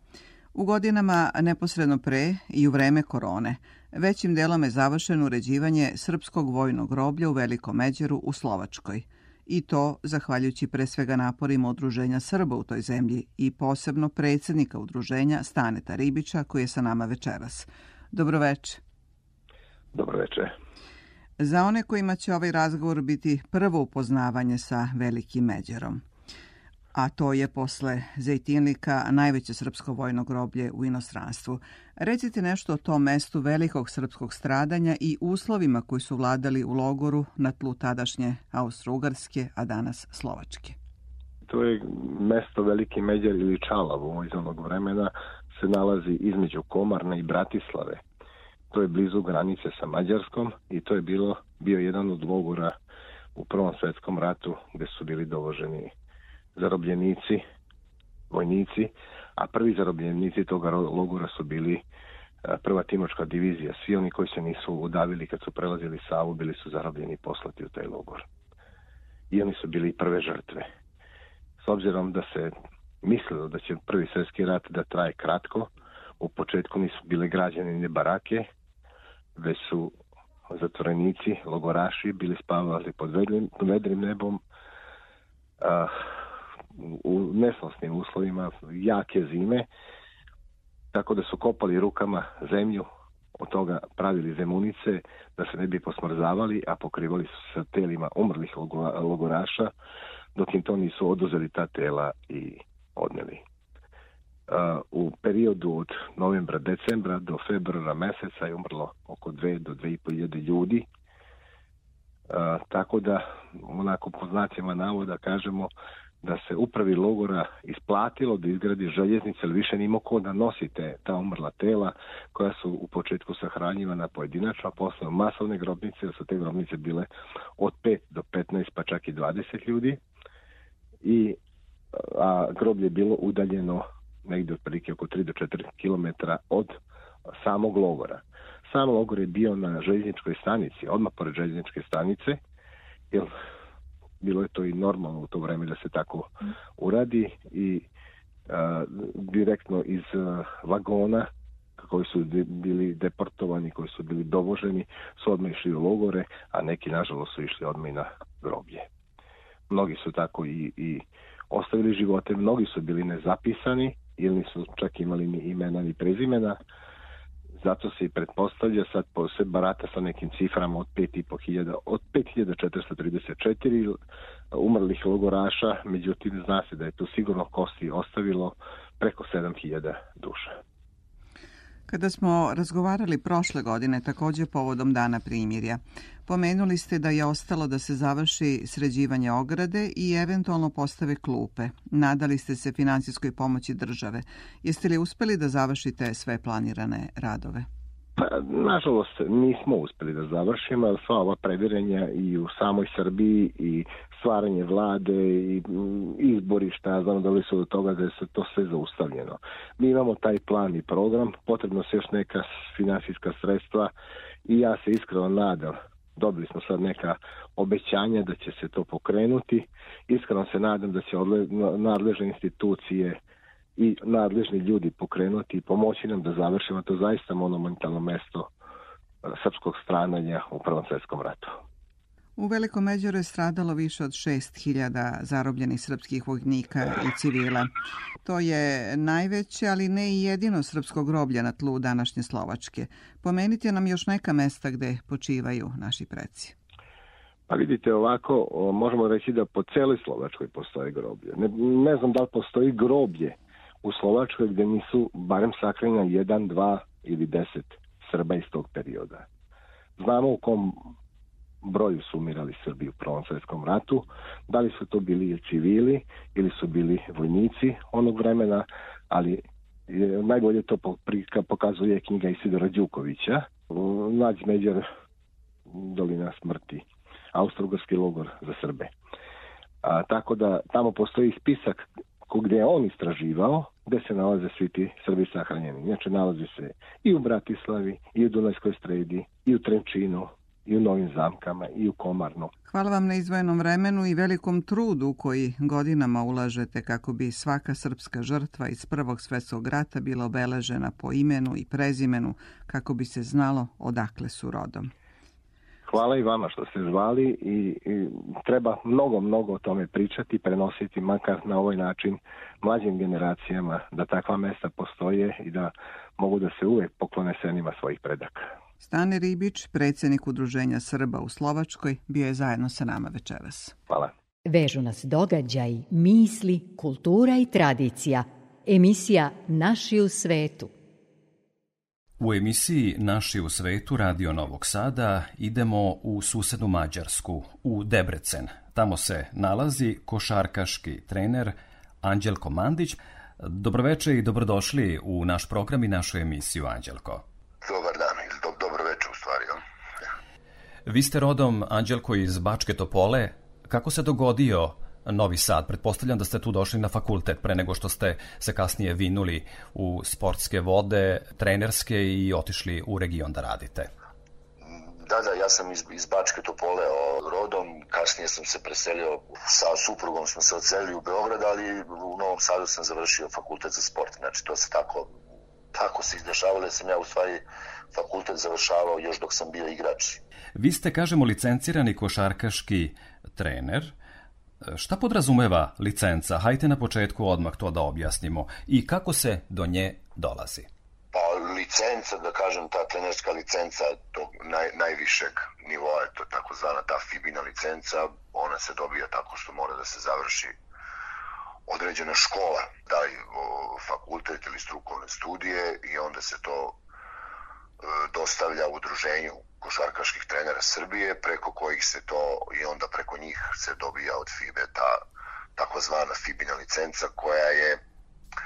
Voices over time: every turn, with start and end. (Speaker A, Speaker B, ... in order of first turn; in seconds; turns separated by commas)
Speaker A: 0.5-18.8, Speaker B: 19.9-20.5, Speaker A: 21.4-26.0, Speaker A: 26.9-40.8, Speaker B: 41.5-48.0, Speaker B: 48.7-52.8, Speaker B: 53.4-55.9, Speaker B: 56.5-57.4, Speaker B: 58.3-61.8, Speaker B: 62.5-68.3, Speaker B: 69.3-70.7, Speaker B: 71.6-78.5, Speaker B: 79.3-80.0, Speaker B: 80.5-84.4, Speaker B: 85.6-86.1, Speaker B: 86.8-89.7, Speaker B: 90.9-99.7, Speaker B: 100.3-103.4, Speaker B: 104.5-110.9, Speaker B: 112.3-115.7, Speaker B: 116.2-130.0, Speaker B: 131.0-131.4, Speaker B: 131.9-136.8, Speaker B: 137.3-142.4, Speaker B: 144.2-147.9, Speaker B: 148.5-158.9, Speaker B: 159.7-166.6, Speaker B: 167.6-174.0, Speaker B: 174.5-180.6, Speaker A: 181.9-197.7, Speaker B: 198.2-213.9, Speaker B: 214.5-223.2, Speaker B: 223.8-228.5, Speaker B: 229.2-231.6, Speaker A: 232.4-237.7, Speaker A: 238.2-246.5, Speaker B: 247.5-259.3, Speaker B: 260.0-260.9, Speaker B: 261.6-274.9, Speaker B: 275.7-278.9, Speaker B: 279.8-292.5, Speaker A: 292.7-304.9, Speaker B: 305.9-318.5, Speaker A: 318.8-323.8, Speaker C: 324.5-330.7, Speaker D: 332.2-347.2, Speaker E: 347.6-349.6, Speaker D: 350.9-363.9, Speaker E: 364.6-375.2, Speaker E: 375.7-377.4, Speaker E: 377.9-380.2, Speaker D: 380.6-383.9, Speaker D: 384.6-390.7, Speaker E: 391.1-400.6, Speaker E: 401.7-406.8, Speaker E: 407.8-415.0, Speaker E: 415.6-417.8